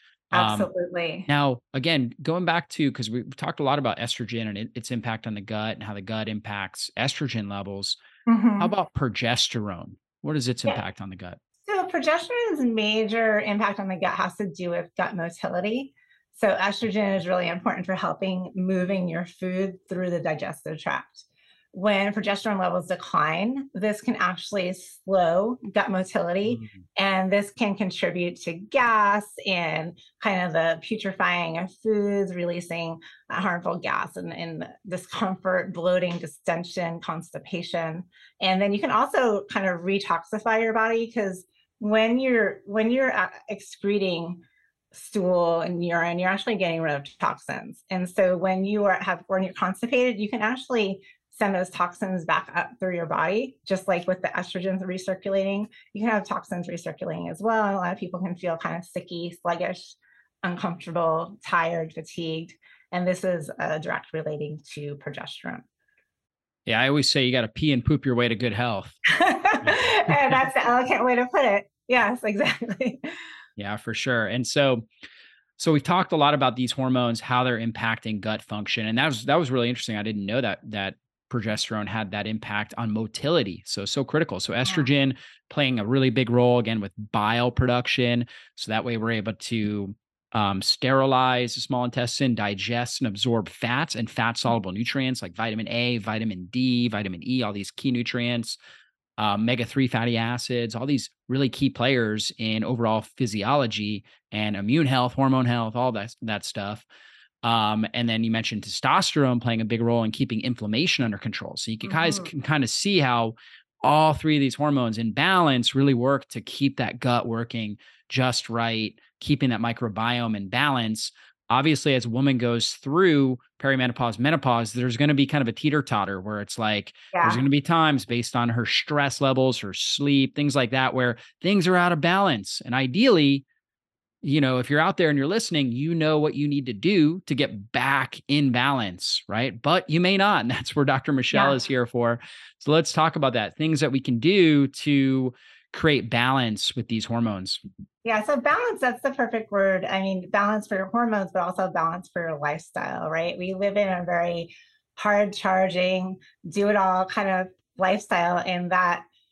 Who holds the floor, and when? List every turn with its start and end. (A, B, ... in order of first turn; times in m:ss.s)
0:00.3-0:00.7 A
0:00.3-0:01.3 B
0:01.3-0:08.0 A
0:08.2-0:08.7 B
0:08.6-0:11.4 A
0:11.6-1:05.6 B
0:26.5-0:26.8 A
1:06.6-1:09.0 A
1:09.1-1:13.0 B
1:09.6-1:10.4 A
1:13.6-1:14.8 A
1:15.6-1:38.6 A
1:39.2-1:46.8 A
1:47.4-2:13.4 A
1:51.8-1:52.3 B
2:07.1-2:07.4 B
2:14.2-2:27.6 A
2:21.3-2:21.6 B
2:28.0-2:39.1 B